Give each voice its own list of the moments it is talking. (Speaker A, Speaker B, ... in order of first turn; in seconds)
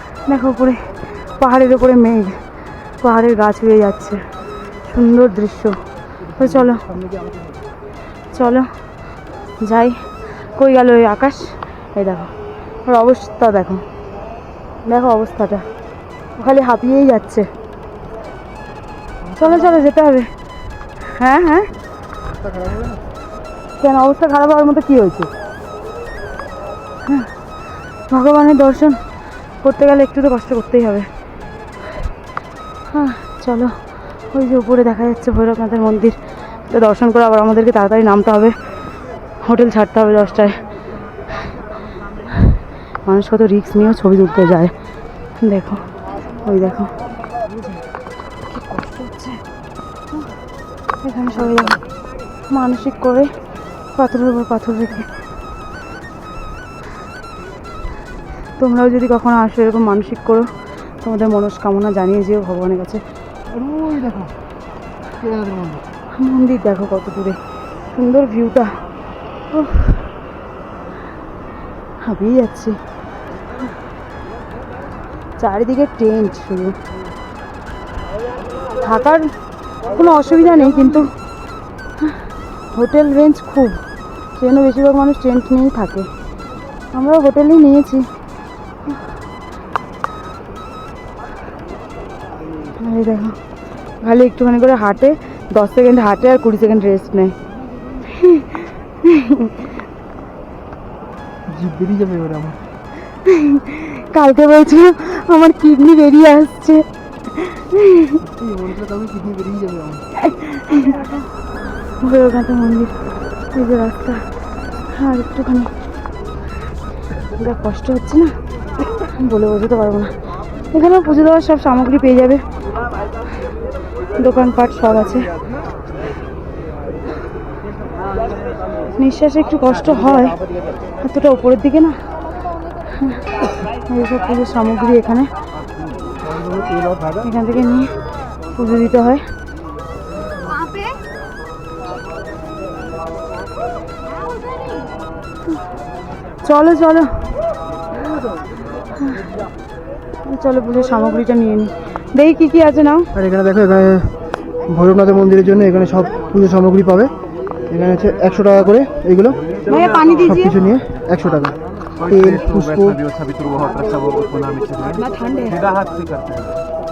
Speaker A: 0.3-0.8, 1.4-2.4, 3.0-4.2, 4.9-5.8, 6.4-6.8, 8.3-8.6, 9.6-11.4, 11.9-12.3, 12.9-13.8, 14.8-15.6, 16.4-17.4, 19.4-20.3, 21.0-21.7, 23.8-25.3, 27.1-27.3, 28.1-29.0, 29.6-31.1, 32.9-33.7, 34.3-36.2, 36.7-38.5, 39.4-40.6, 42.3-44.7, 45.4-45.8, 46.4-46.9, 48.5-49.4, 51.0-51.8, 52.5-53.3, 54.0-55.1, 58.6-60.5, 61.0-63.0, 66.2-67.4, 67.9-68.8, 69.5-70.1, 72.0-72.8, 75.4-76.8, 78.8-79.3, 79.9-81.1, 82.0-83.8, 84.4-86.1, 86.9-88.0, 92.8-93.4, 94.0-97.3, 98.0-99.7, 103.1-108.2, 110.2-111.2, 112.0-112.9, 113.5-114.2, 114.9-115.7, 117.3-118.3, 119.0-120.1, 120.7-122.4, 124.2-125.3, 128.9-130.4, 131.0-131.9, 132.9-135.3, 137.2-137.9, 138.5-139.2, 146.4-147.1, 149.0-149.2, 150.3-153.1, 159.7-160.5, 164.8-165.6
Speaker B: 19.2-19.9, 22.4-23.0, 63.5-64.3, 65.2-65.9, 101.5-102.6, 108.2-110.0, 153.1-154.1, 154.7-157.1, 157.7-159.4, 160.2-161.5, 162.1-163.0
Speaker C: 159.4-166.6